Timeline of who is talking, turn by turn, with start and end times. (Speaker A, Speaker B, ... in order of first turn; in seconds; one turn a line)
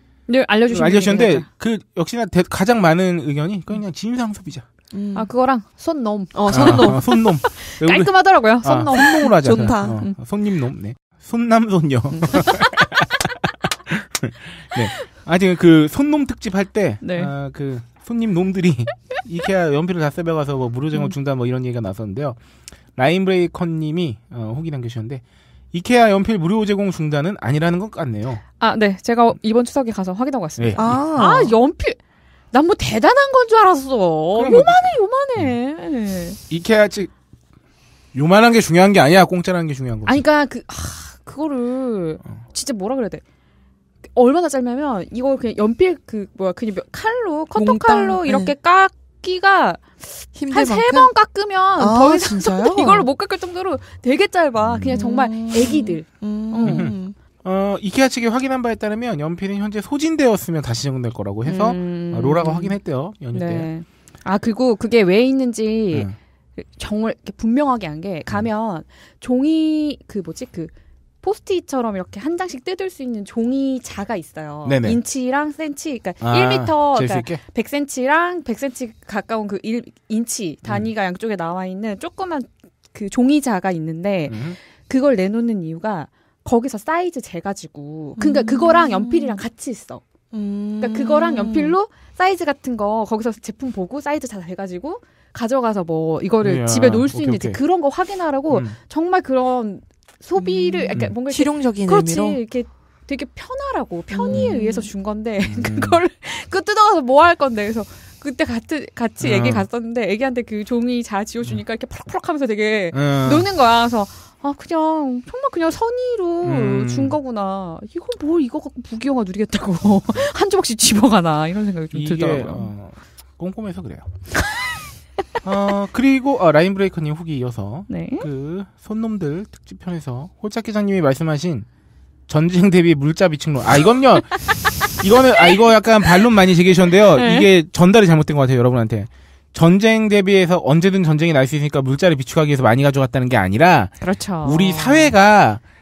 Speaker A: 0.3-1.5
Speaker B: 0.7-4.7
Speaker C: 4.9-5.3
Speaker A: 5.2-9.4
Speaker C: 6.3-7.1
Speaker B: 6.5-22.4
Speaker C: 9.3-10.0
Speaker A: 17.0-17.3
Speaker B: 22.9-28.4
Speaker A: 28.6-32.0
Speaker B: 30.6-31.2
Speaker C: 30.8-31.5
Speaker A: 32.5-36.4
Speaker B: 34.4-35.5
Speaker B: 36.5-37.1
Speaker B: 38.1-40.2
Speaker A: 40.1-43.2
Speaker A: 44.1-56.9
Speaker C: 47.5-48.5
Speaker C: 50.4-51.1
Speaker C: 51.8-53.1
Speaker B: 54.6-54.9
Speaker C: 54.9-57.2
Speaker B: 56.7-63.7
Speaker A: 61.5-62.8
Speaker A: 63.3-90.0
Speaker B: 74.7-75.0
Speaker B: 76.2-77.4
Speaker B: 84.3-84.6
Speaker C: 88.2-89.4
Speaker C: 90.3-91.8
Speaker A: 90.8-122.7
Speaker B: 96.4-97.6
Speaker B: 98.5-98.8
Speaker C: 100.4-102.4
Speaker C: 104.1-104.9
Speaker B: 105.5-106.0
Speaker B: 109.2-109.7
Speaker B: 112.9-113.5
Speaker B: 116.4-117.2
Speaker B: 121.9-124.1
Speaker B: 125.4-131.7
Speaker A: 127.9-128.3
Speaker B: 132.3-145.6
Speaker A: 137.1-137.5
Speaker A: 144.0-145.1